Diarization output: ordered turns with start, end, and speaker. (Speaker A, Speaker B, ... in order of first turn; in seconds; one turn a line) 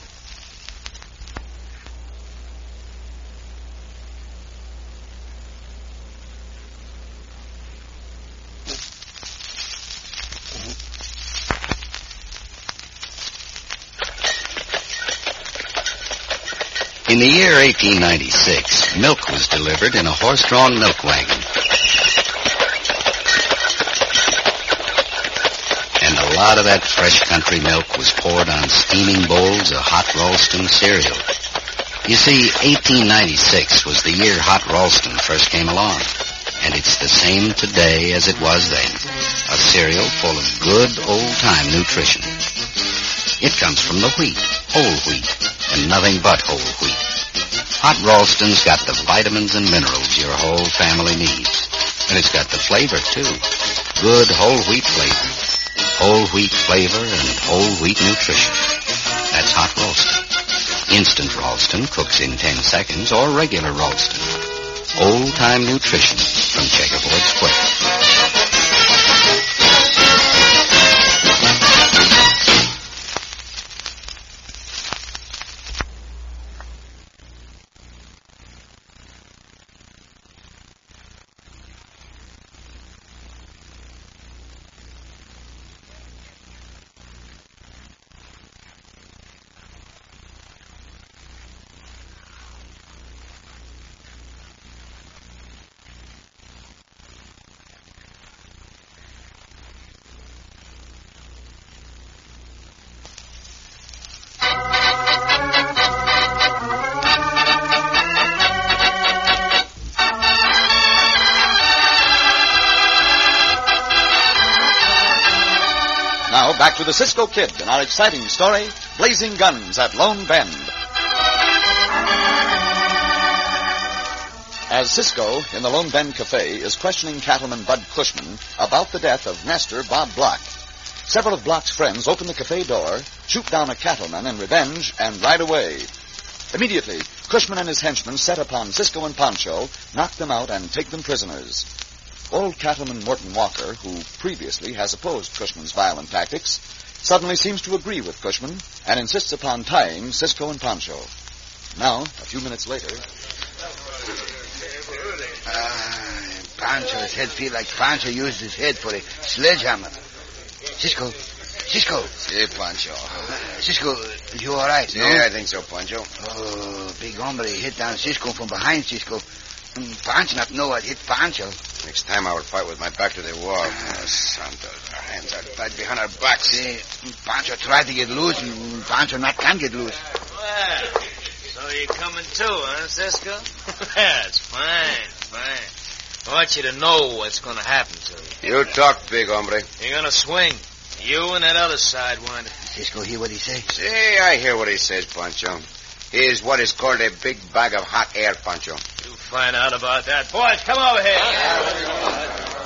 Speaker A: 17.1-21.5
Speaker A: 26.0-31.2
Speaker A: 32.0-42.4
Speaker A: 43.4-47.0
Speaker A: 47.8-53.4
Speaker A: 54.0-55.4
Speaker A: 56.0-58.6
Speaker A: 59.3-60.2
Speaker A: 60.9-64.3
Speaker A: 64.9-67.7
Speaker B: 116.3-120.7
Speaker B: 124.7-130.5
Speaker B: 131.1-135.9
Speaker B: 136.5-141.7
Speaker B: 142.3-151.1
Speaker B: 151.7-153.0
Speaker C: 155.5-159.9
Speaker C: 160.8-162.1
Speaker D: 162.3-163.3
Speaker C: 163.3-165.2
Speaker D: 164.9-166.1
Speaker C: 166.2-169.2
Speaker C: 169.8-171.6
Speaker D: 171.8-176.5
Speaker C: 173.6-174.1
Speaker C: 176.3-180.0
Speaker E: 180.3-185.7
Speaker E: 186.2-188.4
Speaker D: 188.4-189.7
Speaker E: 189.8-192.5
Speaker C: 192.7-193.7
Speaker D: 193.7-198.8
Speaker E: 199.0-202.0